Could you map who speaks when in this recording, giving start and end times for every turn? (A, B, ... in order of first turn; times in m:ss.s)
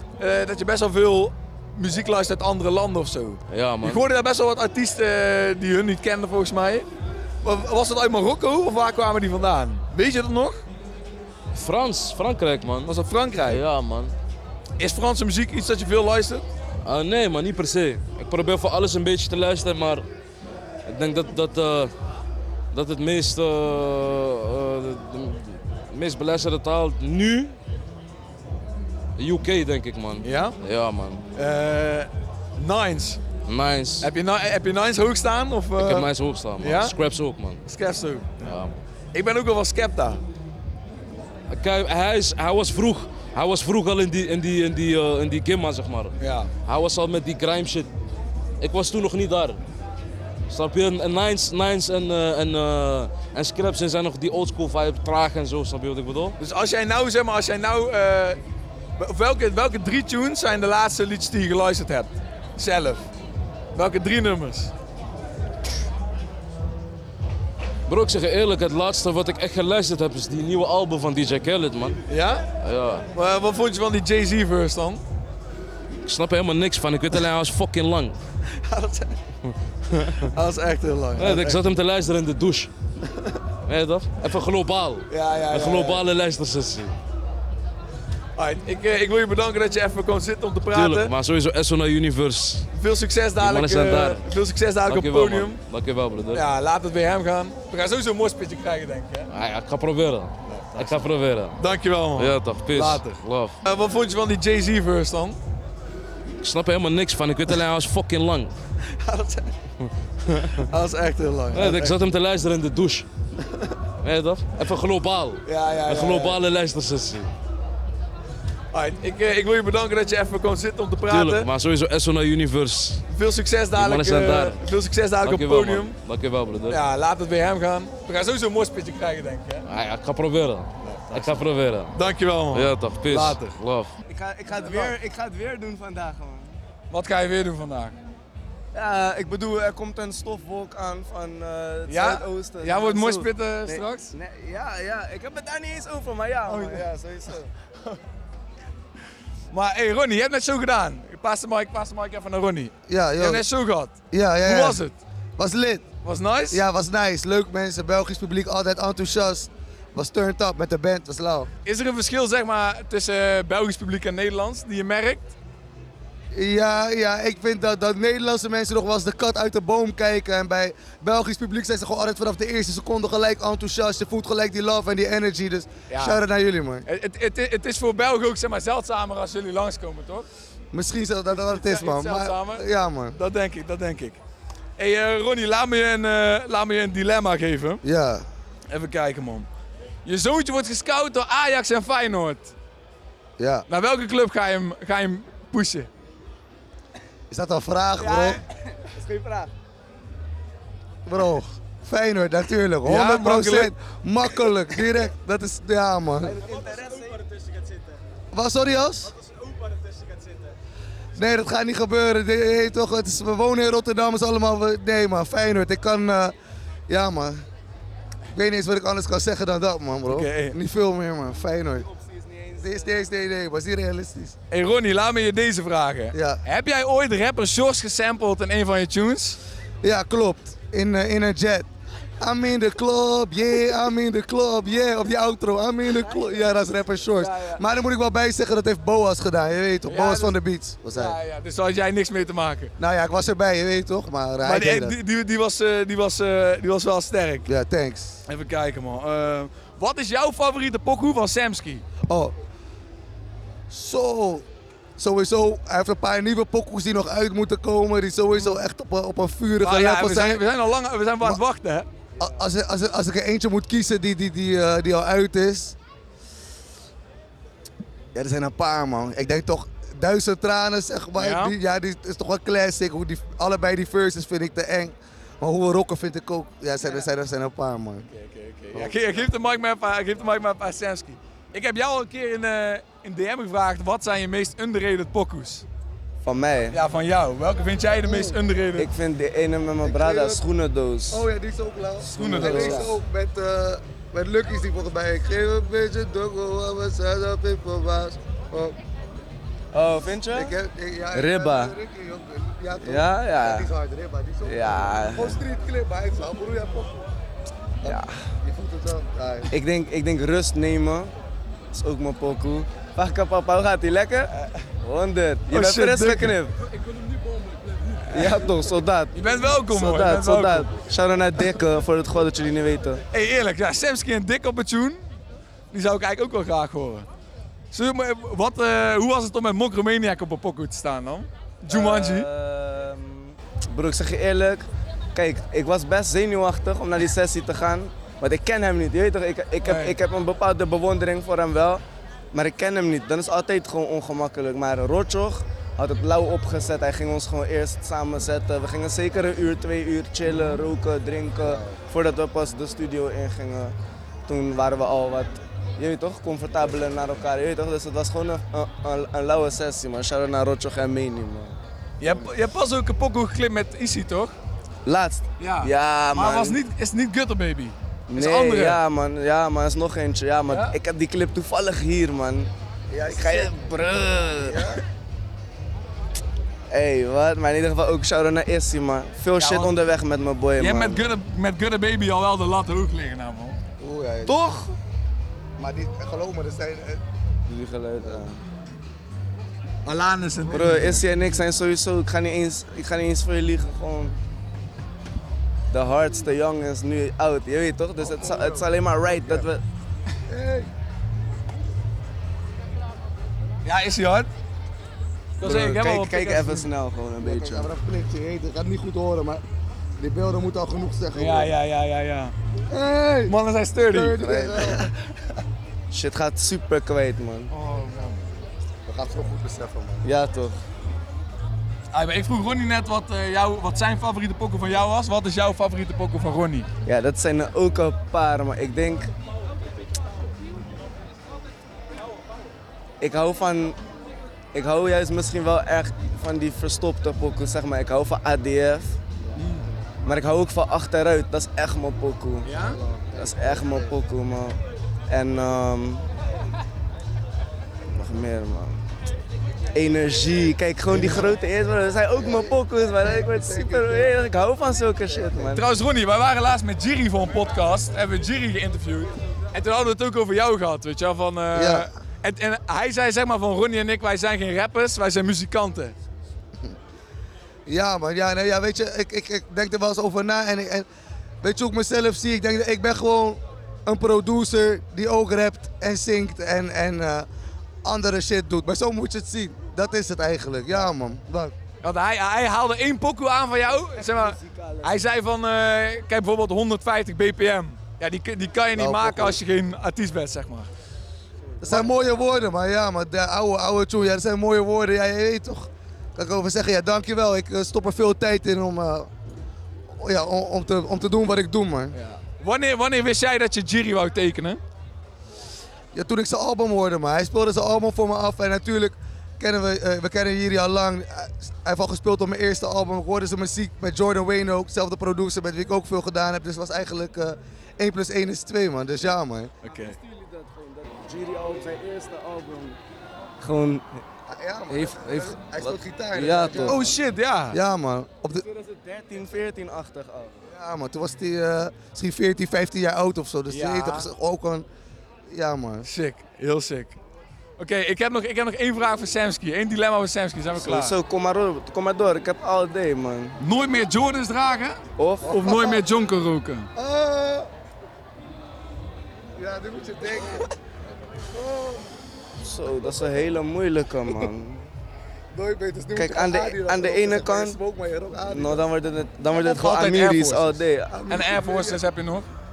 0:00.2-0:06.9 A
0:03.5-0:04.0 B
0:07.4-0:10.6 A
0:11.5-0:12.9 B
0:12.9-0:13.6 A
0:13.5-0:14.1 B
0:14.8-0:16.5 A
0:16.8-0:20.1 B
0:20.8-0:21.9 B
0:22.7-0:27.6 B
0:29.2-0:31.2 B
0:30.2-0:30.6 A
0:31.4-0:33.2 A
0:33.5-0:34.1 B
0:34.0-0:37.0 A
0:35.8-0:37.6 B
0:37.7-0:38.5 A
0:38.4-0:38.7 B
0:39.1-0:40.2 A
0:41.5-0:47.9 B
0:46.2-0:46.5 A
0:48.6-0:49.6 B
0:50.5-0:56.4 B
0:56.4-0:58.4 A
0:59.0-1:03.1 A
1:03.8-1:04.7 A
1:07.9-1:12.0 B
1:12.1-1:12.5 A
1:12.6-1:13.1 B
1:13.1-1:15.0 A
1:16.1-1:18.2 B
1:18.6-1:19.1 A
1:20.0-1:21.6 A
1:21.2-1:22.7 B
1:23.7-1:27.0 B
1:25.1-1:26.0 A
1:28.4-1:31.1 A
1:30.7-1:32.7 B
1:32.7-1:35.6 A
1:33.4-1:34.3 B
1:34.9-1:36.4 B
1:36.3-1:39.3 A
1:39.3-1:41.6 B
1:40.5-1:45.4 A
1:42.2-1:43.6 B
1:46.4-1:48.5 B
1:49.0-1:49.5 A
1:50.4-1:52.0 A
1:51.5-1:53.1 B
1:54.0-1:57.3 B
1:55.5-1:56.4 A
1:58.7-2:01.5 A
2:01.1-2:03.0 B
2:03.1-2:06.0 A
2:03.8-2:04.6 B
2:05.2-2:06.8 B
2:06.7-2:09.6 A
2:09.7-2:11.9 B
2:10.8-2:13.6 A
2:12.5-2:13.9 B
2:14.1-2:16.5 C
2:14.5-2:15.0 A
2:16.9-2:18.0 A
2:18.7-2:27.5 C
2:21.9-2:24.1 A
2:26.5-2:26.9 A
2:29.5-2:35.0 A
2:32.9-2:33.4 D
2:34.1-2:34.8 D
2:35.4-2:35.9 D
2:36.0-2:36.6 A
2:36.5-2:41.5 D
2:41.7-2:45.3 A
2:46.3-2:56.8 D
2:55.9-2:56.2 A
2:56.9-3:00.3 A
3:00.7-3:03.2 D
3:01.3-3:02.6 A
3:03.2-3:04.2 A
3:04.8-3:07.8 A
3:07.8-3:08.3 D
3:08.7-3:09.5 A
3:10.0-3:12.5 A
3:13.4-3:13.6 D
3:13.7-3:15.9 A
3:17.3-3:18.4 D
3:18.0-3:19.5 C
3:21.1-3:26.5 D
3:22.8-3:23.7 A
3:26.2-3:28.0 C
3:28.3-3:29.1 D
3:29.0-3:30.5 C
3:31.2-3:36.3 D
3:36.9-3:37.4 D
3:38.3-3:41.9 D
3:40.1-3:40.6 A
3:41.8-3:43.0 C
3:42.6-3:44.4 D
3:44.5-3:49.4 A
3:46.1-3:46.4 D
3:49.8-3:51.7 D
3:52.2-4:01.2 D
3:56.0-3:56.6 C
3:57.2-3:57.6 A
3:59.9-4:00.4 A
4:00.9-4:02.7 A
4:02.8-4:05.0 D
4:04.4-4:07.5 A
4:07.5-4:08.2 D
4:08.3-4:11.8 A
4:12.1-4:12.4 D
4:13.7-4:14.4 D
4:15.0-4:20.4 D
4:18.3-4:18.7 A
4:19.6-4:21.9 A
4:22.2-4:25.8 D
4:28.2-4:38.1 D
4:31.2-4:31.6 A
4:38.1-4:45.6 A
4:46.2-4:46.8 C
4:46.7-4:48.9 A
4:48.8-4:51.3 C
4:49.8-4:50.4 D
4:51.1-4:58.8 D
4:52.0-4:53.0 C
4:52.2-4:52.9 A
4:59.7-5:00.6 C
5:00.3-5:07.0 D
5:01.1-5:01.8 C
5:02.8-5:03.7 C
5:04.4-5:05.4 C
5:07.8-5:09.5 D
5:07.8-5:08.2 C
5:09.5-5:11.1 C
5:11.7-5:16.6 C
5:15.5-5:16.4 A
5:18.0-5:19.1 C
5:18.2-5:18.4 A
5:19.1-5:20.7 A
5:19.7-5:23.0 C
5:23.1-5:25.0 A
5:25.7-5:27.1 A
5:27.7-5:32.3 A
5:31.7-5:41.8 C
5:39.6-5:40.0 A
5:42.3-5:53.8 C
5:50.3-5:50.6 A
5:51.4-5:51.8 D
5:54.3-6:02.1 C
6:02.0-6:04.3 A
6:04.9-6:06.6 C
6:05.4-6:08.8 A
6:08.1-6:12.5 C
6:10.5-6:10.8 A
6:12.9-6:13.6 D
6:13.0-6:14.7 C
6:14.4-6:14.8 D
6:16.7-6:21.1 C
6:19.4-6:19.9 A
6:20.6-6:23.6 A
6:23.8-6:24.6 D
6:24.3-6:24.7 C
6:25.6-6:27.0 D
6:27.5-6:28.4 C
6:29.8-6:31.1 A
6:30.5-6:34.2 C
6:30.5-6:31.0 D
6:35.7-6:39.6 C
6:38.0-6:39.5 D
6:40.3-6:40.7 D
6:43.6-6:44.3 A
6:45.4-6:46.7 A
6:45.4-6:47.7 C
6:47.2-6:49.4 D
6:50.0-6:51.5 D
6:51.1-6:52.3 A
6:52.7-6:53.4 D
6:53.3-6:54.2 A
6:53.9-6:54.9 D
6:54.2-6:54.9 C
6:55.9-6:57.5 C
6:57.5-6:58.3 A
6:58.9-7:00.1 D
7:00.0-7:00.6 C
7:01.9-7:06.7 A
7:06.9-7:09.1 C
7:13.0-7:13.8 C
7:14.5-7:19.0 C
7:19.4-7:19.7 A
7:20.0-7:22.6 C
7:22.5-7:22.8 A
7:22.6-7:23.9 D
7:23.2-7:24.6 C
7:25.1-7:26.1 C
7:27.9-7:28.8 C
7:29.7-7:35.6 C
7:30.9-7:31.3 D
7:32.2-7:34.2 D
7:35.1-7:35.5 D
7:35.5-7:46.0 A
7:41.5-7:41.9 D
7:47.7-7:50.9 D
7:51.4-7:57.3 D
7:57.8-8:01.5 D
8:01.8-8:10.7 A
8:03.9-8:05.0 C
8:08.8-8:09.4 D
8:11.6-8:12.4 C
8:11.6-8:19.1 D
8:20.0-8:22.0 D
8:21.9-8:24.6 A
8:25.9-8:39.5 D
8:39.6-8:40.0 A
8:39.6-8:42.8 C
8:43.4-8:44.0 C
8:44.3-8:46.9 D
8:44.7-8:47.0 C
8:46.5-8:47.6 A
8:47.5-8:48.4 D
8:48.3-8:50.4 C
8:50.5-8:54.7 D
8:53.5-8:54.1 A
8:55.3-8:55.9 D
8:55.8-8:57.0 A
8:57.6-9:01.0 A
9:00.6-9:03.4 C
9:03.4-9:06.7 A
9:05.0-9:05.8 C
9:05.3-9:05.8 D
9:06.8-9:07.5 D
9:09.4-9:10.5 D
9:11.2-9:11.8 D
9:12.4-9:14.6 C
9:15.3-9:18.7 D
9:16.0-9:17.6 C
9:18.3-9:21.0 C
9:19.3-9:22.3 A
9:20.9-9:21.8 D